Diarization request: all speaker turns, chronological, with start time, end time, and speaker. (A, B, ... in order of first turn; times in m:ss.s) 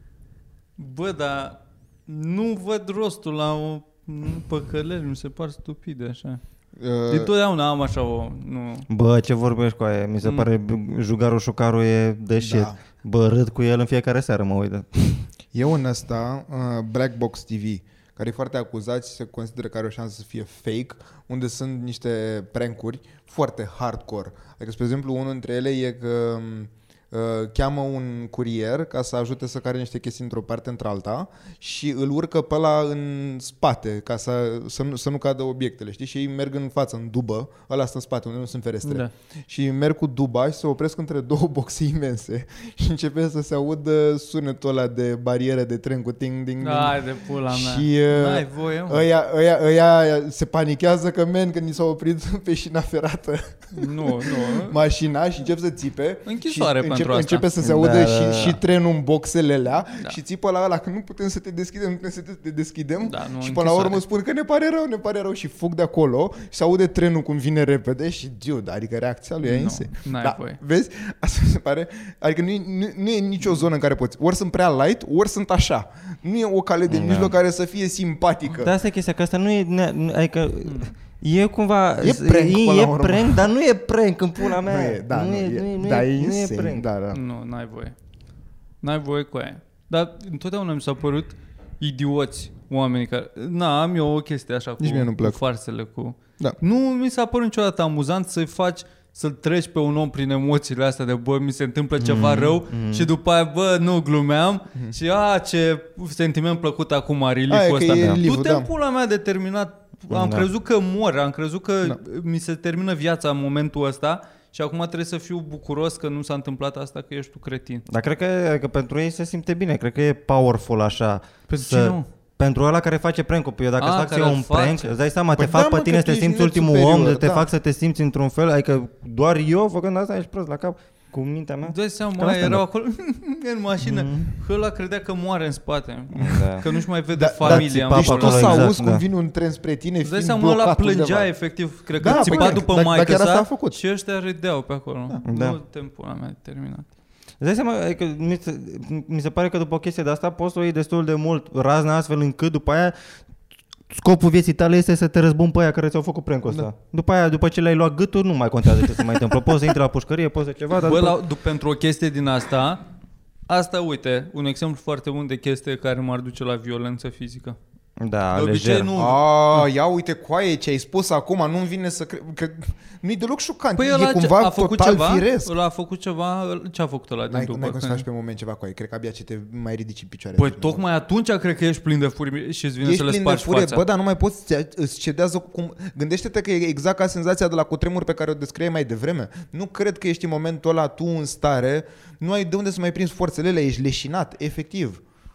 0:00.8-0:08.9 A
0:06.8-0:07.3 B
0:08.9-0:15.3 C
0:10.2-0:10.5 A
0:12.4-0:12.8 B
0:15.5-0:47.0 B
0:38.8-0:39.1 A
0:46.6-0:49.0 A
0:47.5-1:18.7 B
0:53.8-0:54.8 A
0:56.2-0:57.5 A
0:57.6-0:58.6 C
1:03.0-1:04.0 A
1:09.4-1:10.6 A
1:16.9-1:17.3 C
1:18.6-1:26.9 C
1:20.6-1:20.9 A
1:22.0-1:23.5 B
1:24.4-1:27.2 B
1:27.1-1:27.9 A
1:28.8-1:57.8 A
1:34.8-1:35.4 B
1:42.0-1:43.1 C
1:47.5-1:48.7 B
1:47.9-1:48.2 C
1:50.1-1:50.5 C
1:57.9-2:12.6 C
2:01.5-2:02.0 A
2:03.8-2:04.9 A
2:05.4-2:07.5 B
2:11.6-2:18.7 A
2:13.8-2:14.3 C
2:16.1-2:21.3 B
2:16.2-2:16.6 C
2:17.4-2:19.0 C
2:20.0-2:26.8 A
2:22.0-2:23.8 B
2:22.0-2:22.6 C
2:25.2-2:25.6 C
2:27.4-2:33.2 C
2:33.9-2:41.2 C
2:40.8-2:42.8 A
2:43.5-2:47.6 A
2:48.0-2:48.9 C
2:48.3-2:49.6 A
2:48.9-2:55.5 B
2:53.8-2:58.0 A
2:57.3-3:00.8 B
3:00.4-3:03.8 A
3:02.8-3:15.0 B